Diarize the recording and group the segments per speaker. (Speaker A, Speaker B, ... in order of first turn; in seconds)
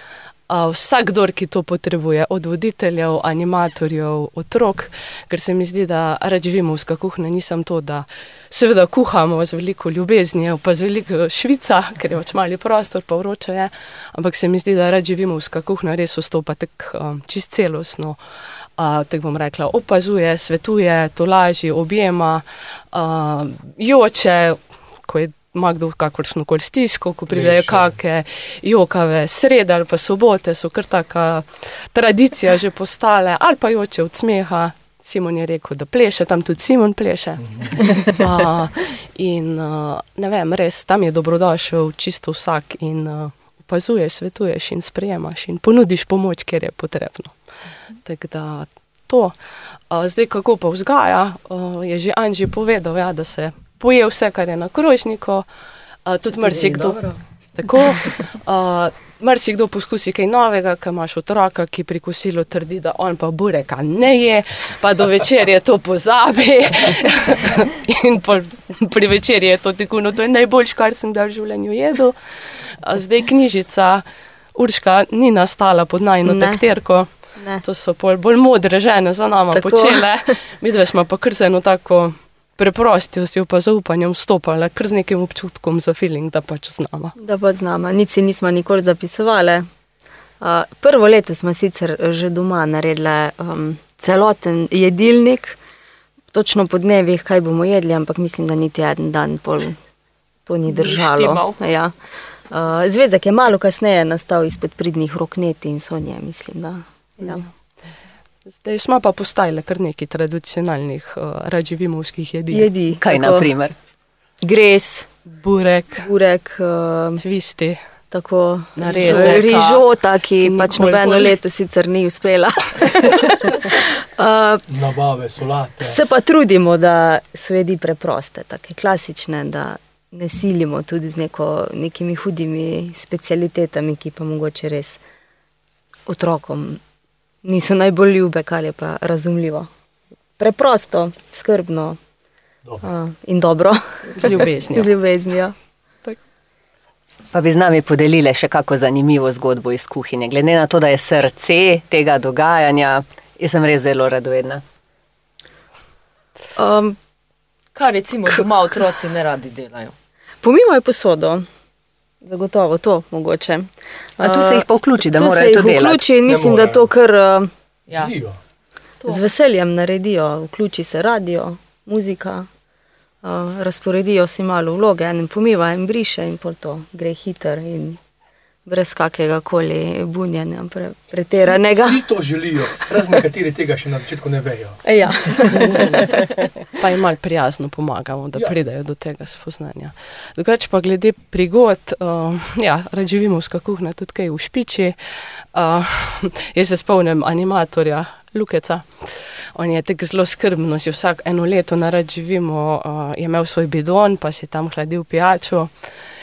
Speaker A: 0.5-18.2, 18.8-47.4, 48.0-49.3, 49.9-55.4, 56.0-72.2, 72.8-74.0, 74.5-87.1, 108.5-112.7, 115.2-116.1, 117.2-117.8, 118.7-121.3, 144.2-144.9, 186.8-195.0, 195.5-205.9
Speaker B: 27.3-27.9, 124.7-126.0, 166.2-166.9, 167.9-168.4, 181.3-186.0
Speaker C: 76.2-76.6, 77.3-77.6, 79.5-80.1, 87.2-89.7, 90.4-95.6, 96.3-99.8, 100.5-101.9, 102.5-107.4, 112.5-113.5, 114.4-115.1, 115.9-117.2, 118.1-124.6, 125.8-135.0, 136.1-136.8, 137.4-139.7, 140.4-142.0, 142.8-145.5, 156.6-157.0, 160.4-161.5, 162.2-167.5, 169.0-172.5, 173.2-178.0, 178.7-182.0, 184.8-186.1
Speaker D: 100.7-101.6, 118.9-119.3, 157.7-159.9
Speaker E: 113.0-113.7, 147.3-154.6, 164.2-166.0